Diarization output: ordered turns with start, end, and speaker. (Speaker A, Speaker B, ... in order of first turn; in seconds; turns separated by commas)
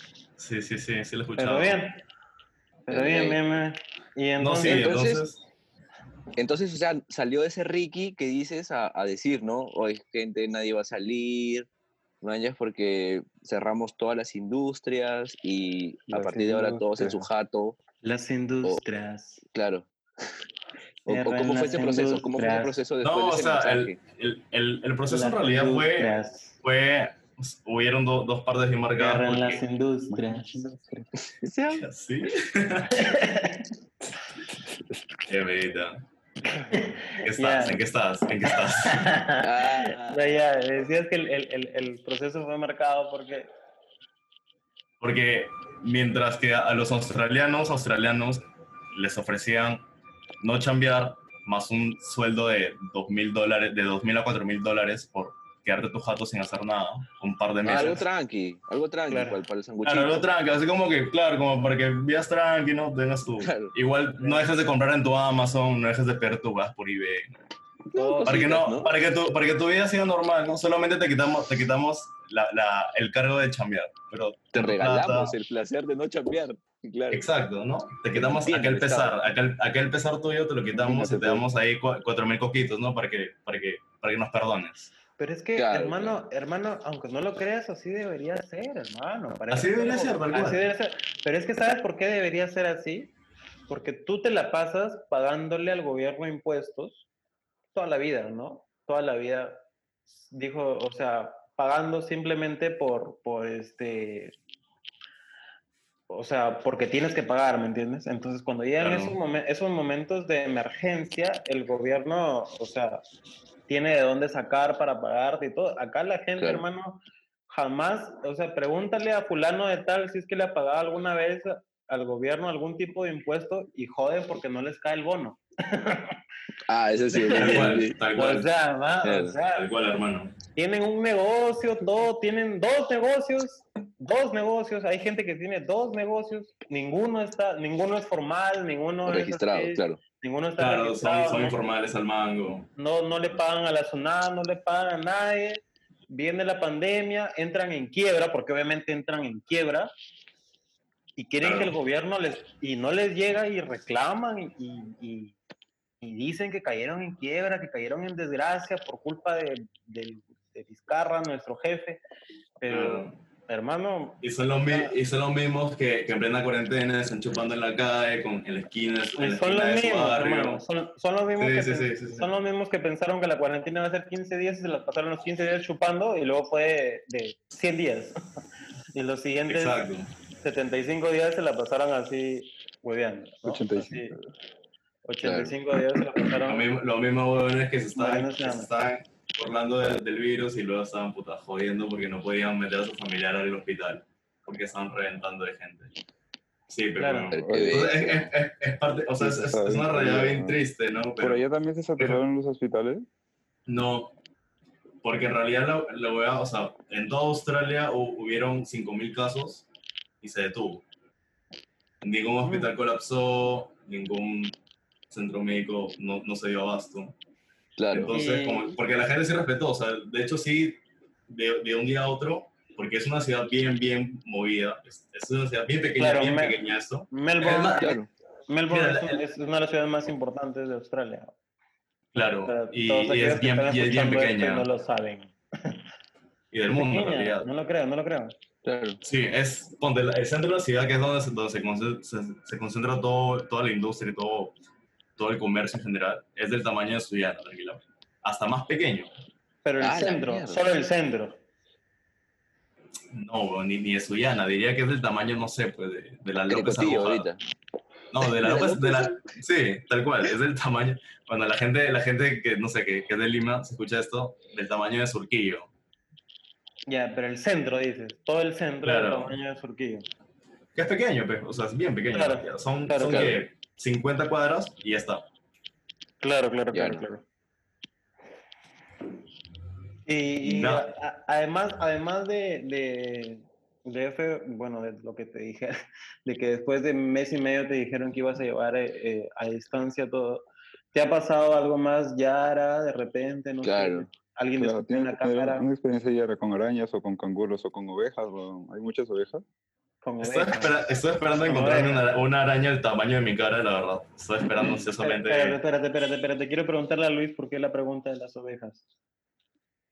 Speaker A: 0.4-1.9, Speaker B: 1.4-2.0, Speaker B: 2.9-4.9, Speaker C: 2.9-3.4, Speaker A: 4.4-5.4, Speaker C: 4.6-5.2, Speaker C: 6.4-11.7, Speaker C: 12.2-17.8, Speaker D: 16.1-17.2, Speaker B: 18.0-19.4, Speaker C: 19.5-20.4, Speaker C: 21.1-24.0, Speaker B: 21.1-22.8, Speaker A: 23.0-29.6, Speaker B: 25.1-26.6, Speaker B: 29.0-30.7, Speaker D: 30.1-31.1, Speaker C: 31.2-31.9, Speaker A: 31.8-33.0, Speaker B: 33.0-33.7, Speaker D: 34.5-35.0, Speaker A: 35.3-36.0, Speaker B: 36.5-37.8, Speaker A: 37.2-39.0, Speaker B: 38.6-43.5, Speaker C: 39.4-40.3, Speaker A: 45.0-49.8, Speaker A: 50.4-58.0, Speaker C: 57.6-60.3, Speaker B: 57.7-58.0, Speaker B: 59.1-59.4, Speaker A: 59.8-67.3, Speaker C: 63.4-63.7, Speaker B: 64.2-64.5, Speaker C: 67.9-68.9, Speaker B: 67.9-68.5, Speaker A: 68.2-75.3, Speaker C: 74.5-77.3, Speaker A: 77.1-84.9, Speaker C: 78.1-79.2, Speaker D: 80.7-81.5, Speaker B: 85.2-93.1, Speaker C: 85.6-86.2, Speaker A: 89.5-90.7, Speaker B: 93.7-97.0, Speaker B: 97.7-99.6, Speaker B: 100.3-104.4, Speaker B: 106.1-113.0, Speaker A: 108.8-109.2, Speaker B: 113.7-126.2, Speaker C: 116.4-116.6, Speaker C: 126.7-128.0, Speaker B: 127.1-129.7, Speaker A: 127.3-128.5, Speaker C: 129.0-129.4, Speaker A: 129.5-130.3, Speaker B: 130.6-141.6, Speaker C: 139.1-140.0, Speaker A: 140.6-142.7, Speaker B: 142.8-149.9, Speaker B: 151.2-155.4, Speaker A: 151.4-151.8, Speaker B: 156.0-162.0, Speaker B: 162.6-164.9, Speaker A: 162.7-163.2, Speaker A: 164.2-170.6, Speaker B: 169.2-178.2, Speaker A: 171.4-172.3, Speaker B: 178.9-179.8, Speaker A: 179.5-180.1, Speaker B: 180.4-184.2, Speaker D: 183.4-184.2, Speaker B: 185.1-186.7, Speaker C: 185.2-185.6, Speaker A: 186.5-195.9, Speaker B: 187.9-188.7, Speaker A: 196.7-201.4, Speaker B: 197.0-197.3, Speaker C: 197.3-198.2, Speaker D: 197.4-198.2, Speaker D: 199.2-200.6, Speaker D: 201.2-203.1, Speaker A: 203.7-204.1, Speaker A: 205.0-209.7, Speaker A: 210.2-210.8, Speaker A: 212.0-214.6, Speaker B: 212.4-212.7, Speaker A: 215.1-217.2, Speaker C: 217.8-218.1, Speaker A: 217.9-227.9, Speaker B: 218.1-218.8, Speaker B: 226.0-226.6, Speaker B: 227.1-228.0, Speaker C: 227.8-228.1, Speaker B: 228.5-231.3, Speaker A: 228.7-229.2, Speaker A: 232.1-234.7, Speaker B: 232.5-235.8, Speaker A: 236.5-237.5, Speaker B: 236.7-238.3, Speaker C: 238.6-239.0, Speaker A: 239.0-244.6, Speaker A: 245.2-249.1, Speaker B: 249.7-251.4, Speaker C: 249.8-250.7, Speaker A: 253.1-257.3, Speaker C: 256.5-257.4, Speaker A: 258.1-265.7, Speaker C: 258.3-259.2, Speaker B: 266.9-270.1, Speaker A: 268.8-269.3, Speaker A: 270.8-275.2, Speaker B: 272.1-273.4, Speaker C: 273.0-273.4, Speaker B: 276.2-277.2, Speaker C: 276.7-277.0, Speaker B: 280.1-295.7, Speaker A: 280.4-280.9, Speaker C: 293.6-294.1, Speaker D: 294.6-299.4, Speaker B: 300.0-300.8, Speaker A: 300.2-305.6, Speaker B: 301.4-302.1, Speaker B: 304.6-308.8